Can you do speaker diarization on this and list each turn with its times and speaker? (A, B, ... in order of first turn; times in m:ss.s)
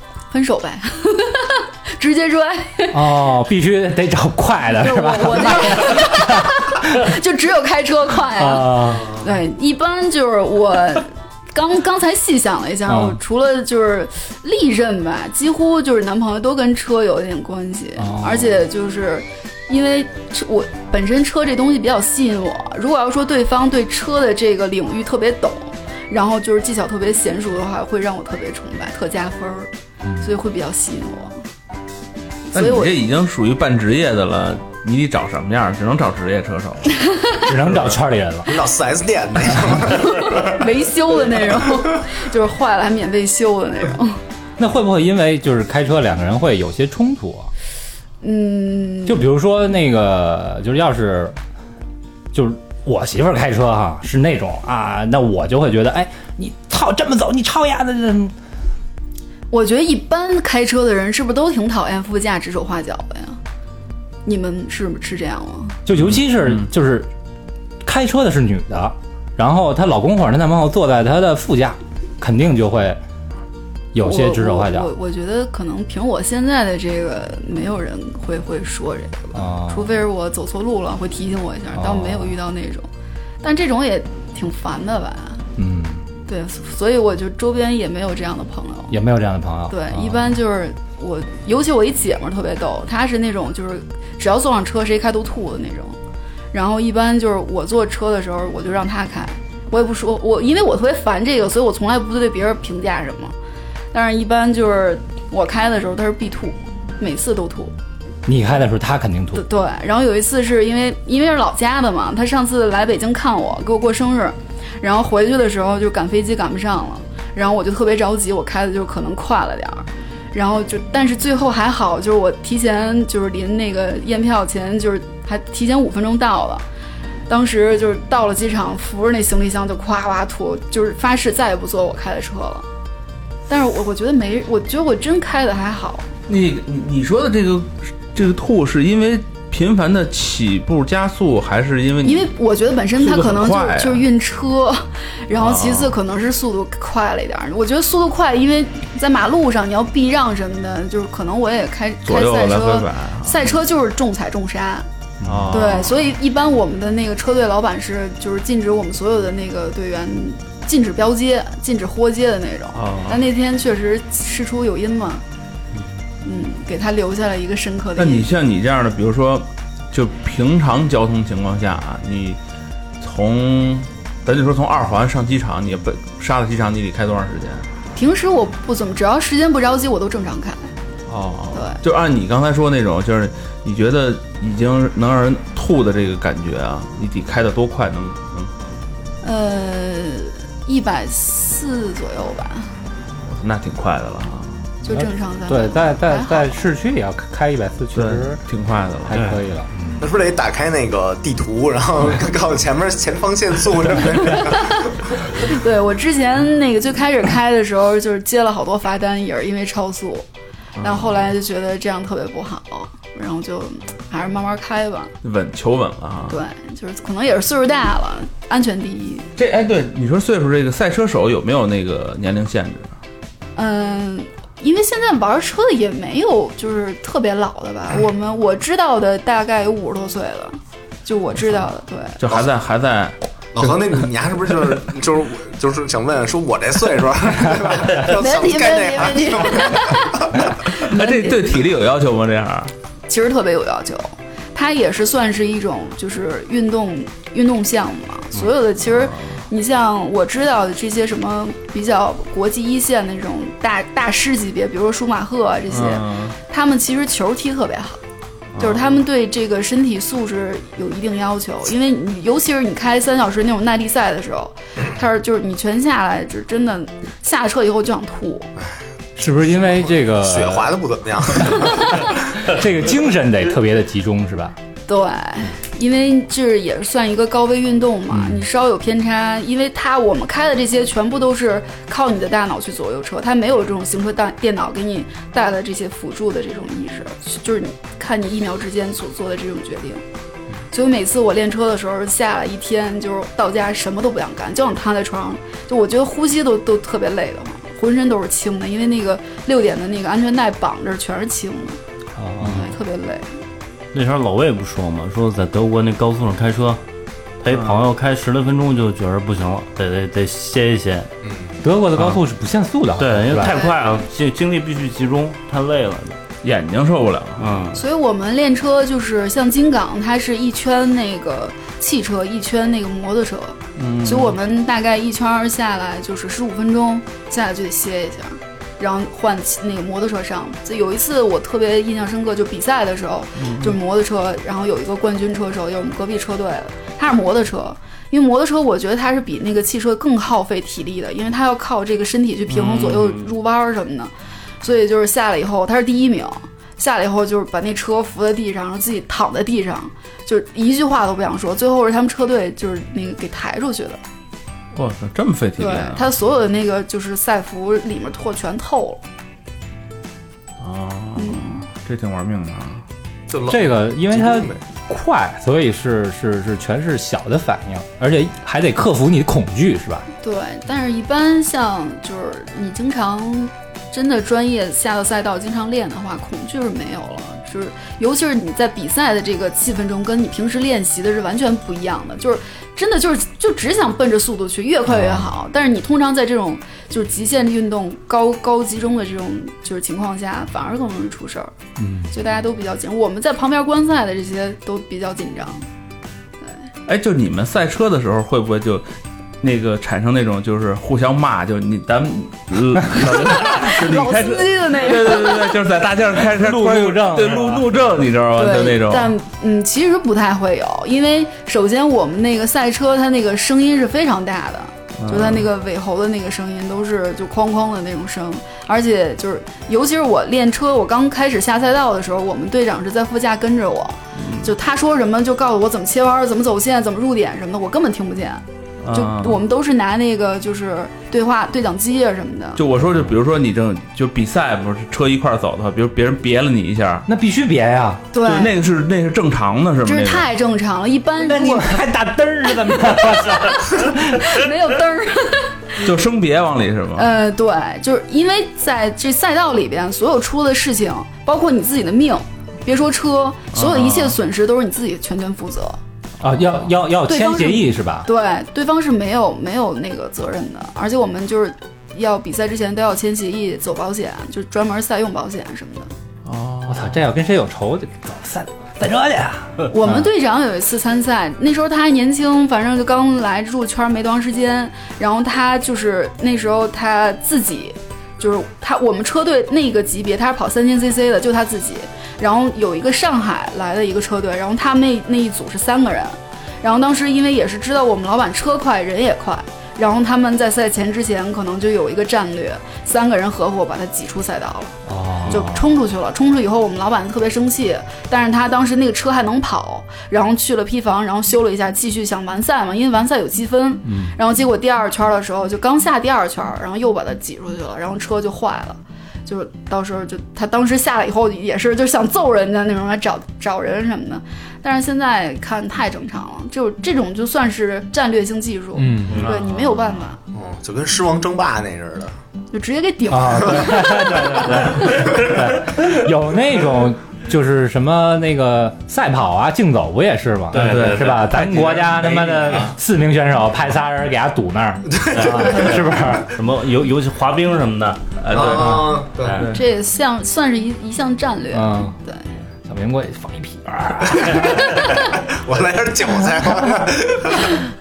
0:00.3-0:03.1 A
0:02.9-0:07.0 B
0:04.7-0:31.4 A
0:08.4-0:09.2 B
0:12.9-0:13.2 B
0:18.0-0:18.6 B
0:30.0-0:30.3 B
0:32.5-0:32.9 A
0:32.5-0:37.0 C
0:37.4-0:38.6 B
0:38.5-0:40.6 D
0:40.0-0:44.2 A
0:44.6-0:47.5 B
0:48.2-0:49.2 A
0:49.0-0:51.4 B
0:52.3-0:58.3 B
0:59.5-1:03.4 A
1:04.2-1:05.8 A
1:05.8-1:07.1 B
1:07.8-1:13.0 B
1:13.9-1:14.9 B
1:14.0-1:22.9 A
1:19.3-1:19.9 B
1:21.7-1:22.3 B
1:23.4-1:25.4 A
1:25.6-1:26.0 B
1:26.3-1:29.0 A
1:28.9-1:30.4 B
1:29.7-1:36.0 A
1:36.5-1:43.3 A
1:43.9-1:47.7 A
1:48.2-1:49.4 B
1:49.3-2:06.6 A
2:07.3-2:12.6 A
2:13.5-2:16.1 A
2:16.3-2:22.3 C
2:22.0-2:34.9 A
2:23.0-2:24.1 C
2:25.3-2:26.0 C
2:32.0-2:33.6 C
2:35.2-2:35.6 B
2:35.2-2:36.1 C
2:35.5-2:45.2 A
2:42.7-2:43.2 C
2:46.2-2:48.3 A
2:48.0-2:52.4 C
2:53.0-2:57.6 C
2:57.9-3:00.7 A
3:01.1-3:08.5 C
3:01.5-3:01.8 A
3:09.2-3:12.7 A
3:13.3-3:14.6 C
3:14.8-3:16.5 A
3:14.9-3:18.4 B
3:17.9-3:19.2 C
3:19.0-3:20.1 B
3:20.0-3:25.4 D
3:25.4-3:30.2 A
3:30.8-3:31.2 C
3:30.8-3:35.1 A
3:35.2-3:36.4 C
3:36.3-3:39.3 A
3:39.4-3:43.0 C
3:43.6-3:52.2 A
3:52.2-3:53.1 C
3:53.5-4:00.5 D
3:58.0-4:01.4 A
4:00.7-4:02.7 C
4:03.1-4:18.0 A
4:08.9-4:09.4 C
4:15.7-4:16.3 C
4:18.5-4:19.0 C
4:18.6-4:28.5 A
4:29.2-4:30.7 B
4:29.5-4:32.1 D
4:31.4-4:34.6 B
4:34.9-4:50.0 A
4:38.1-4:38.4 B
4:50.7-5:01.8 A
5:02.2-5:02.7 B
5:02.4-5:03.3 A
5:03.9-5:06.8 E
5:07.4-5:11.1 E
5:07.5-5:07.8 C
5:11.2-5:11.6 D
5:11.6-5:13.7 B
5:13.0-5:16.2 E
5:16.4-5:17.6 C
5:17.4-5:17.8 E
5:17.7-5:44.1 A
5:23.8-5:24.4 C
5:33.4-5:33.8 C
5:42.5-5:43.3 C
5:44.6-5:54.0 A
5:54.7-5:56.1 C
5:55.6-5:59.0 A
6:00.6-6:02.8 C
6:01.2-6:01.6 A
6:03.3-6:04.6 D
6:03.5-6:10.1 B
6:10.2-6:31.5 A
6:24.9-6:25.3 B
6:31.8-6:32.1 B
6:32.1-6:35.6 A
6:36.9-6:38.9 C
6:39.4-6:49.1 C
6:43.1-6:45.6 A
6:46.3-6:47.7 B
6:48.4-7:12.6 A
6:55.0-6:55.5 C
7:04.2-7:04.5 C
7:08.8-7:09.4 C
7:12.6-7:17.0 C
7:17.1-7:18.0 B
7:18.1-7:18.5 A
7:18.2-7:20.3 C
7:19.8-7:21.8 A
7:21.2-7:24.4 B
7:22.9-7:25.8 A
7:25.8-7:27.1 C
7:27.0-7:35.8 A
7:33.5-7:34.2 C
7:36.2-7:38.1 B
7:37.0-7:45.9 A
7:46.2-7:47.0 C
7:46.7-7:50.1 B
7:49.7-8:40.2 A
8:14.8-8:15.7 B
8:23.8-8:24.2 B
8:38.8-8:39.3 B
8:39.1-8:39.4 C
8:40.3-8:42.1 D
8:42.5-8:45.1 A
8:43.1-8:56.3 B
8:50.5-8:51.2 E
8:50.5-8:52.7 C
8:54.9-8:55.8 D
8:55.1-8:58.4 E
8:58.2-8:59.6 C
8:58.3-8:59.5 D
8:59.2-8:59.6 E
8:59.5-9:02.2 A
9:01.5-9:02.0 B
9:02.6-9:04.8 B
9:04.9-9:07.6 D